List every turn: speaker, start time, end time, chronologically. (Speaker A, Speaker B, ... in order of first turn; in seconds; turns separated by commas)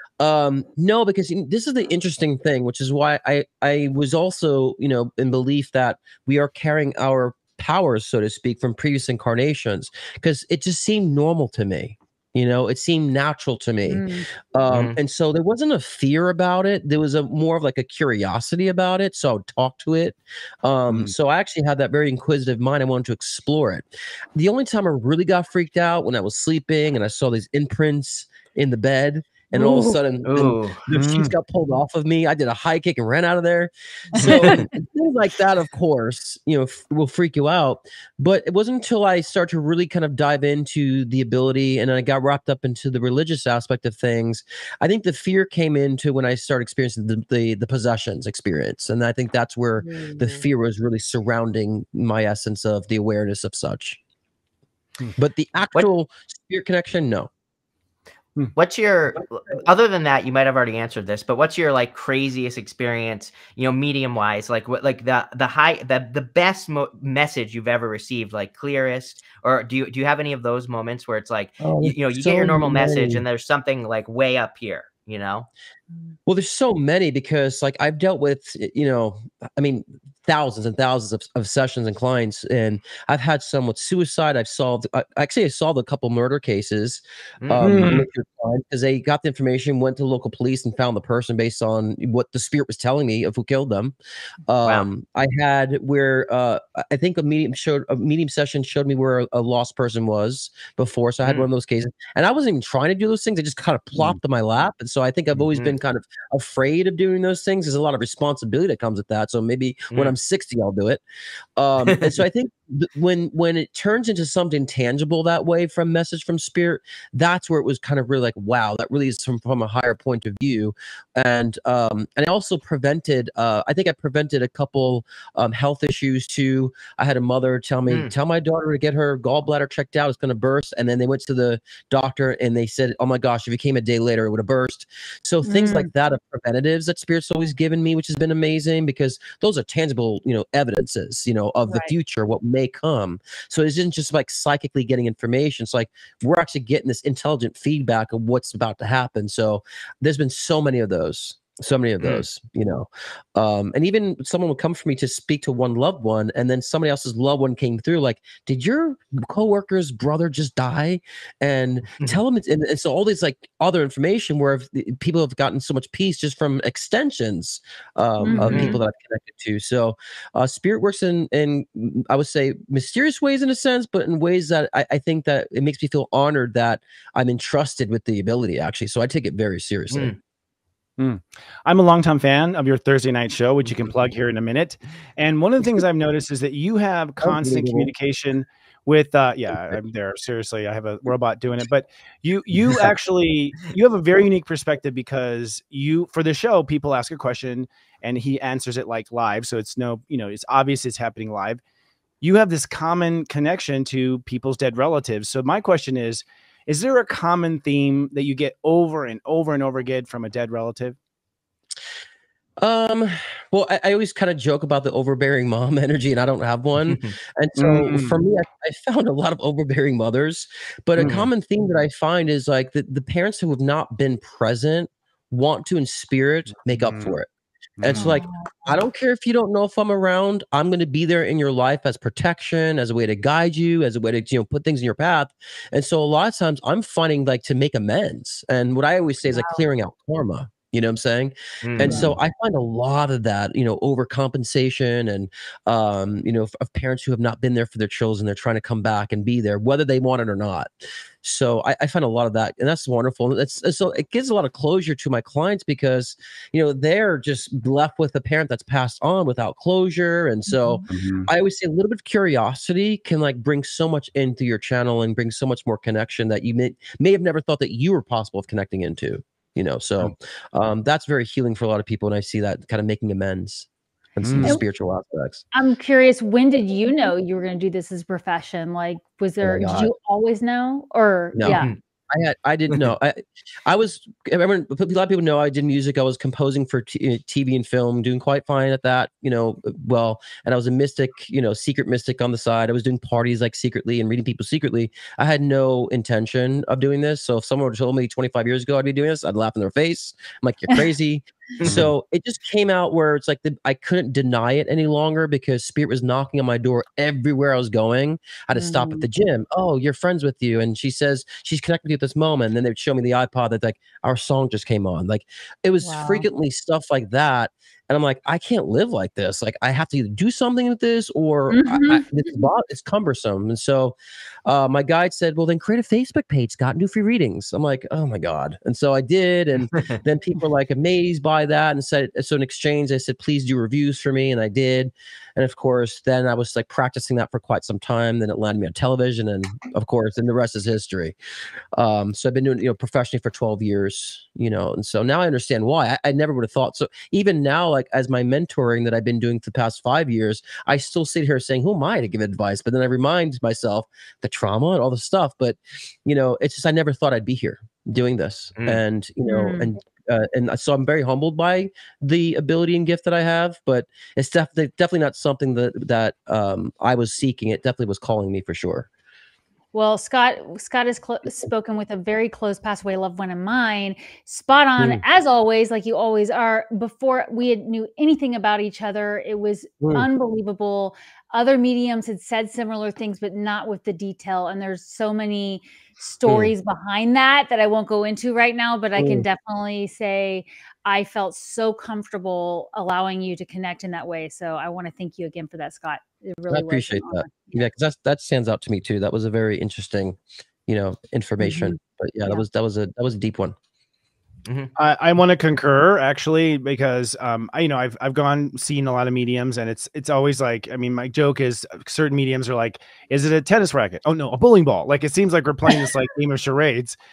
Speaker A: 0.2-54.0, Speaker B: 13.9-14.2, Speaker C: 14.7-15.0, Speaker D: 20.9-21.1, Speaker C: 29.6-30.8, Speaker D: 30.9-31.3, Speaker C: 34.2-34.6, Speaker B: 49.8-50.1, Speaker A: 55.1-57.3, Speaker C: 58.5-75.5, Speaker A: 71.6-73.2, Speaker A: 76.3-94.0, Speaker D: 87.5-88.0, Speaker A: 94.5-111.0, Speaker A: 111.6-180.1, Speaker C: 127.9-128.1, Speaker B: 135.5-135.8, Speaker B: 141.7-141.9, Speaker B: 168.2-168.7, Speaker C: 168.4-168.8, Speaker C: 179.9-180.2, Speaker D: 181.0-201.6, Speaker A: 187.2-187.9, Speaker D: 202.2-210.9, Speaker A: 212.6-227.3, Speaker D: 217.6-218.2, Speaker D: 221.0-221.3, Speaker C: 221.0-221.3, Speaker D: 226.7-227.1, Speaker D: 227.8-228.2, Speaker A: 227.8-250.7, Speaker B: 227.9-228.3, Speaker B: 239.3-239.6, Speaker C: 241.6-242.0, Speaker B: 241.8-242.1, Speaker A: 251.2-275.4, Speaker B: 260.5-260.8, Speaker D: 260.9-261.3, Speaker D: 274.2-274.6, Speaker B: 275.5-281.6, Speaker A: 279.4-279.9, Speaker A: 281.3-341.1, Speaker C: 281.4-281.8, Speaker B: 308.6-309.0, Speaker B: 315.8-316.2, Speaker B: 321.5-322.1, Speaker A: 341.7-368.9, Speaker B: 359.2-359.7, Speaker B: 369.7-397.6, Speaker A: 379.8-380.1, Speaker A: 389.0-389.3, Speaker A: 396.5-403.5, Speaker C: 404.4-404.7, Speaker D: 404.8-417.0